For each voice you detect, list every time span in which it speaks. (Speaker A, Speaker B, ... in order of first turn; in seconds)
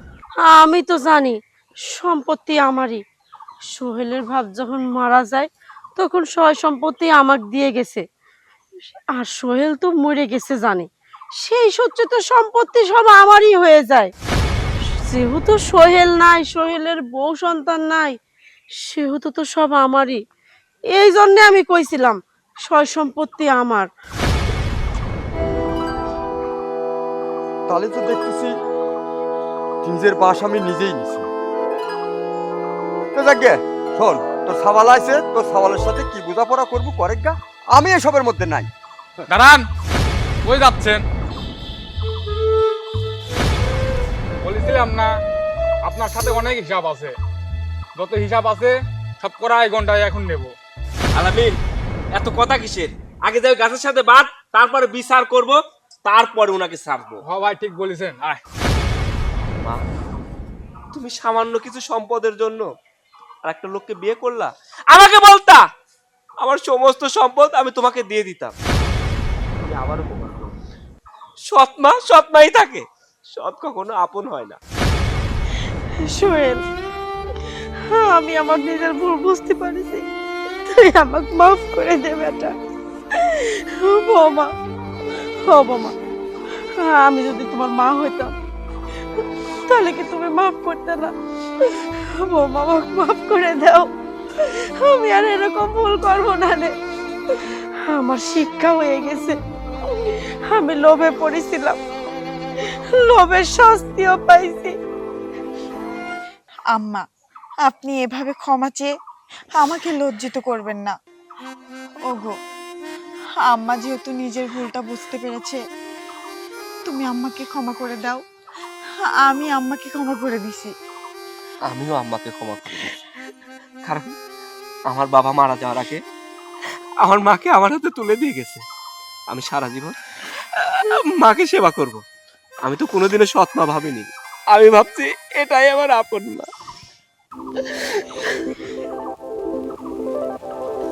Speaker A: 0.4-3.0, 3.7-8.0, 9.2-14.1, 15.1-18.2, 18.8-20.2, 20.9-23.9, 76.0-76.6, 77.9-80.0, 80.7-82.5, 83.2-84.5, 85.4-85.9, 86.8-88.3, 89.7-96.7, 97.8-99.4, 100.0-101.8, 102.9-104.7
Speaker B: 27.7-28.5, 29.8-31.3, 33.1-38.7
Speaker C: 39.3-39.6, 40.5-41.0, 44.4-45.1, 45.9-47.1, 48.0-50.5, 57.2-58.4
Speaker D: 51.1-51.6, 52.1-57.2, 59.5-59.8, 60.9-62.7, 63.4-65.6, 66.4-68.5, 69.6-70.5, 71.5-74.6, 121.7-123.0, 123.8-124.2, 124.9-126.0, 127.0-128.6, 129.3-130.0, 130.5-132.0, 132.6-136.5, 137.7-138.4
Speaker E: 106.7-107.0, 107.6-108.9, 109.5-110.9, 112.1-112.3, 113.5-115.6, 116.8-118.2, 119.0-120.7